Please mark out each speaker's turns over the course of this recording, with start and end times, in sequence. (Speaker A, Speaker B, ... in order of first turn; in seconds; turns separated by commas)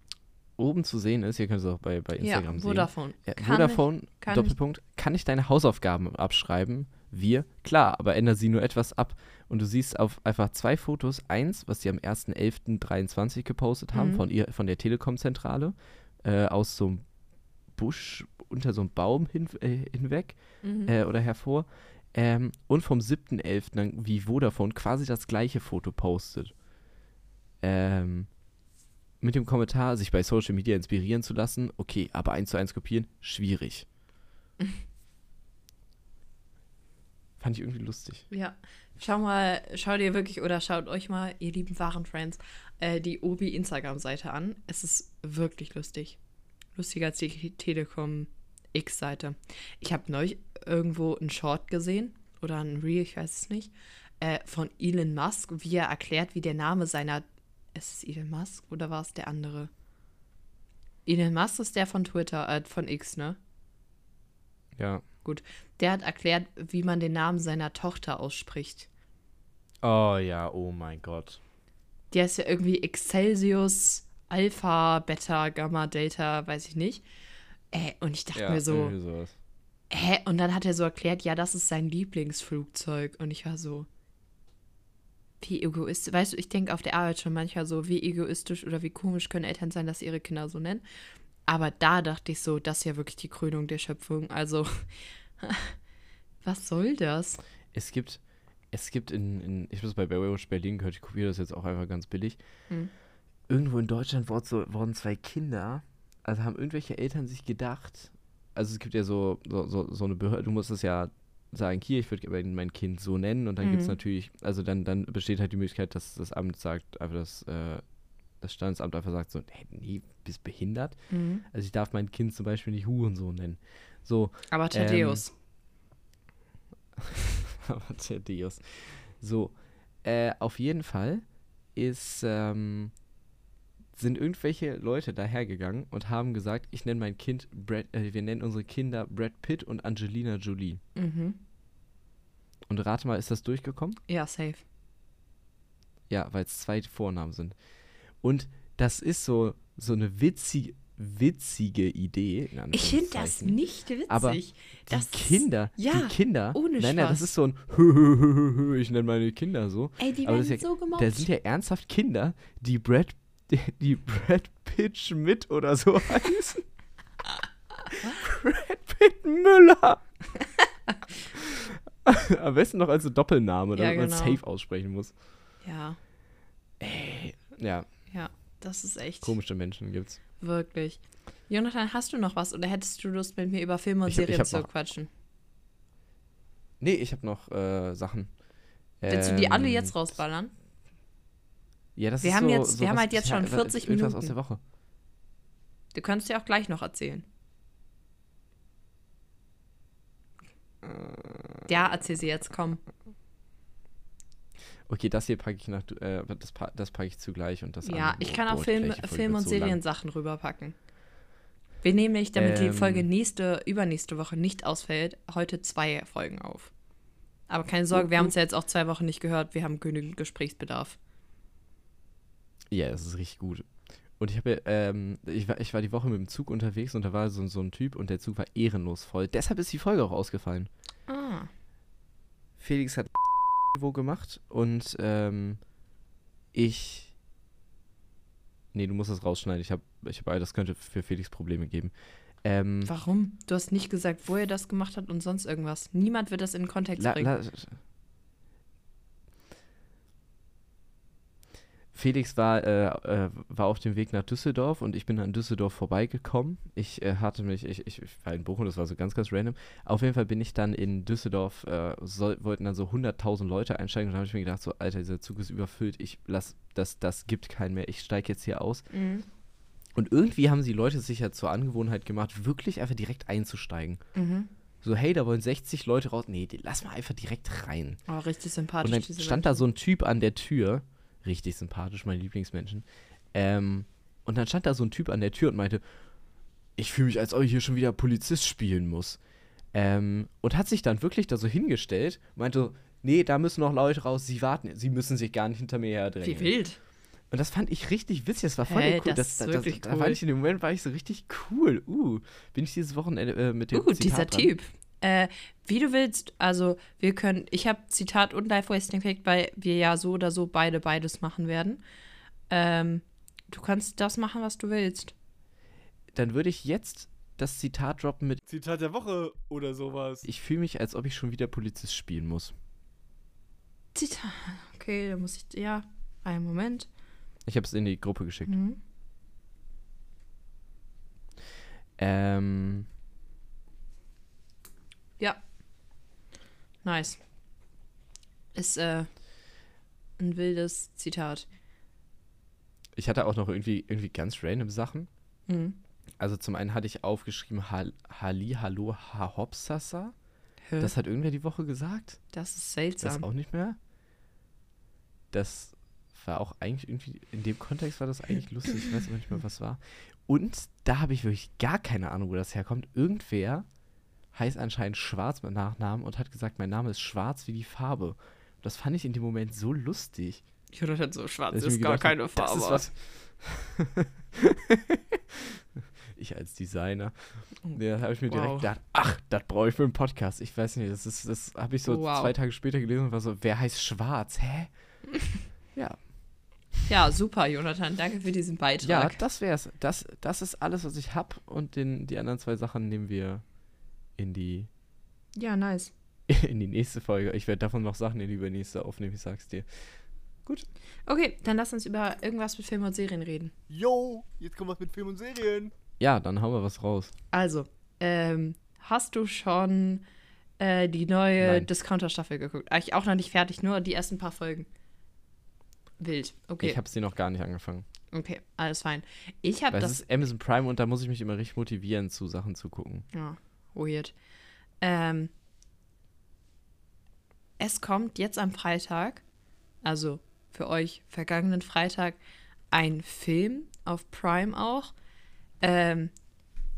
Speaker A: 0.6-17.1, Speaker B: 2.2-4.5, Speaker B: 13.9-14.2, Speaker A: 17.7-26.6, Speaker B: 20.6-20.9, Speaker A: 27.6-28.4, Speaker A: 29.2-33.9, Speaker A: 37.4-38.3, Speaker B: 38.3-46.2, Speaker B: 46.7-59.7, Speaker B: 61.0-63.4, Speaker A: 64.7-65.0, Speaker B: 65.2-68.9, Speaker A: 69.8-71.4, Speaker B: 72.1-77.0, Speaker B: 77.7-79.0, Speaker A: 78.3-79.3, Speaker B: 79.9-83.9, Speaker B: 85.4-90.8, Speaker B: 91.5-95.8, Speaker B: 96.4-97.4, Speaker A: 97.7-102.4, Speaker A: 103.5-125.2, Speaker B: 113.6-114.0, Speaker B: 121.1-121.4, Speaker B: 124.5-125.3, Speaker A: 127.4-133.0, Speaker A: 133.9-140.8, Speaker B: 140.9-141.4, Speaker A: 142.7-144.0, Speaker B: 144.1-144.6, Speaker A: 146.1-147.6, Speaker A: 148.2-166.6, Speaker B: 152.7-157.3, Speaker B: 160.0-161.3, Speaker A: 168.1-170.0, Speaker A: 171.3-175.2, Speaker B: 173.8-174.4, Speaker B: 175.6-176.0, Speaker A: 176.8-178.0, Speaker B: 178.1-179.4, Speaker A: 179.2-180.2, Speaker B: 180.4-185.1, Speaker A: 184.1-184.7, Speaker A: 186.8-190.2, Speaker B: 189.1-190.5, Speaker A: 191.9-194.6, Speaker B: 192.2-194.3, Speaker B: 195.9-197.2, Speaker A: 200.8-201.6, Speaker B: 201.7-202.8, Speaker A: 204.8-209.8, Speaker B: 207.8-210.8, Speaker B: 211.8-216.7, Speaker A: 212.3-213.1, Speaker B: 217.5-221.0, Speaker A: 217.9-218.3, Speaker A: 222.7-230.7, Speaker B: 231.1-231.5, Speaker A: 232.6-235.6, Speaker A: 236.5-237.1, Speaker A: 238.7-242.9, Speaker B: 242.8-247.3, Speaker A: 247.0-247.8, Speaker A: 251.9-268.9, Speaker B: 268.9-269.2, Speaker A: 269.9-274.0, Speaker B: 274.1-274.5, Speaker A: 274.8-278.0, Speaker B: 278.1-279.7, Speaker A: 278.8-286.1, Speaker A: 286.7-289.2, Speaker A: 289.7-296.6, Speaker B: 296.2-296.8, Speaker A: 297.3-304.5, Speaker B: 298.6-300.2, Speaker B: 303.7-311.8, Speaker B: 312.5-315.1, Speaker A: 316.1-318.4, Speaker C: 318.4-320.2, Speaker A: 320.2-322.5, Speaker B: 323.9-326.9, Speaker A: 327.4-328.6, Speaker B: 328.5-328.8, Speaker A: 332.0-332.9, Speaker B: 336.8-337.2, Speaker B: 338.5-339.6, Speaker B: 340.2-341.4, Speaker A: 342.9-345.1, Speaker B: 345.5-345.8, Speaker A: 346.2-350.1, Speaker B: 350.6-350.9, Speaker A: 350.8-352.2, Speaker B: 352.3-353.2, Speaker A: 353.0-353.8, Speaker A: 355.3-363.7, Speaker A: 364.3-370.4, Speaker B: 370.7-372.9, Speaker A: 371.5-375.6, Speaker A: 376.1-384.7, Speaker B: 377.6-378.7, Speaker B: 381.8-382.3, Speaker A: 385.7-386.1, Speaker B: 386.9-389.2, Speaker A: 388.8-393.6, Speaker A: 394.1-394.7, Speaker B: 395.3-395.9, Speaker A: 396.3-400.7, Speaker B: 401.1-403.5, Speaker C: 403.7-405.7, Speaker A: 406.0-407.1, Speaker B: 407.3-410.0, Speaker B: 410.6-414.7, Speaker A: 411.4-411.7, Speaker B: 416.0-416.8, Speaker A: 416.6-417.9, Speaker B: 418.1-420.0, Speaker A: 419.7-423.1, Speaker B: 423.1-424.1, Speaker B: 424.8-425.3, Speaker B: 427.6-429.2, Speaker B: 429.8-432.2, Speaker B: 432.7-434.9, Speaker B: 435.6-436.1